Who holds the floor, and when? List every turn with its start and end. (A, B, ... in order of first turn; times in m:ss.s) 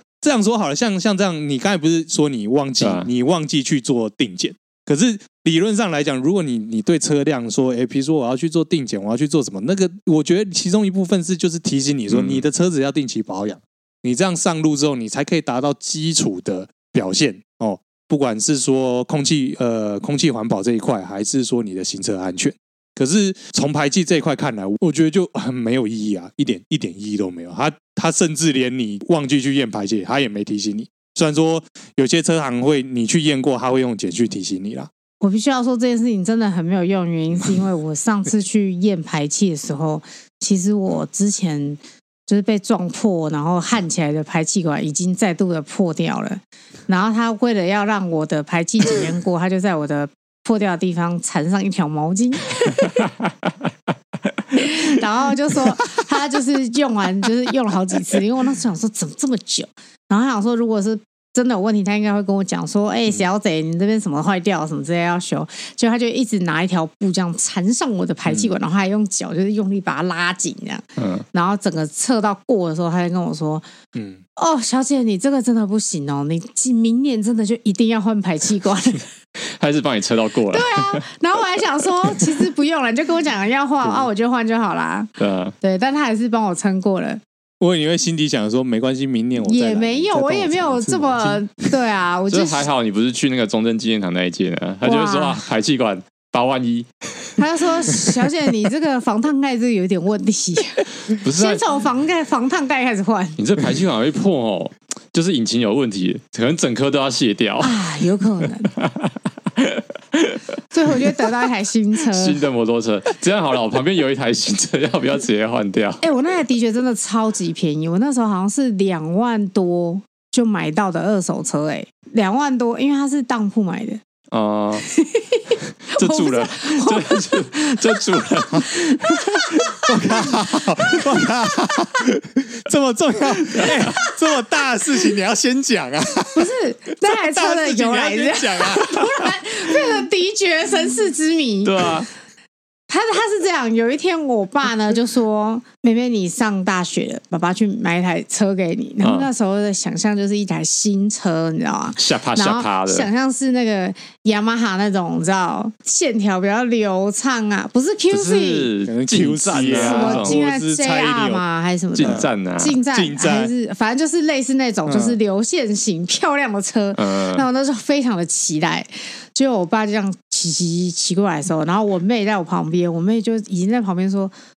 0:00.2-0:34.9 A
0:02.8-0:03.1 B
0:12.1-0:12.4 B
0:35.2-0:53.1 C
0:54.5-1:13.6 C
1:11.0-1:11.2 B
1:13.9-1:14.2 A
1:14.4-1:19.0 C
1:19.4-1:21.0 B
1:20.5-1:25.1 C
1:25.2-1:25.5 B
1:25.6-1:27.2 C
1:27.6-1:31.4 A
1:29.4-1:32.6 C
1:32.3-1:37.4 B
1:34.8-1:35.4 C
1:37.4-1:43.4 C
1:41.2-1:41.6 B
1:43.4-1:47.8 B
1:47.6-1:48.7 C
1:48.7-1:50.4 B
1:50.7-1:52.4 C
1:52.1-1:56.0 B
1:56.0-2:04.0 C
2:04.3-2:04.9 B
2:04.8-2:08.0 C
2:06.0-2:09.7 B
2:09.0-2:09.7 C
2:09.8-2:16.5 A
2:13.5-2:13.9 B
2:16.3-2:22.0 C
2:17.0-2:19.0 A
2:21.6-2:22.1 B
2:22.9-2:38.7 C
2:29.0-2:29.3 B
2:32.0-2:33.1 B
2:38.1-2:40.4 B
2:38.9-2:41.4 A
2:39.8-2:54.3 C
2:41.9-2:42.8 B
2:42.0-2:42.3 A
2:42.9-2:43.5 A
2:44.8-2:45.2 A
2:46.9-2:47.5 B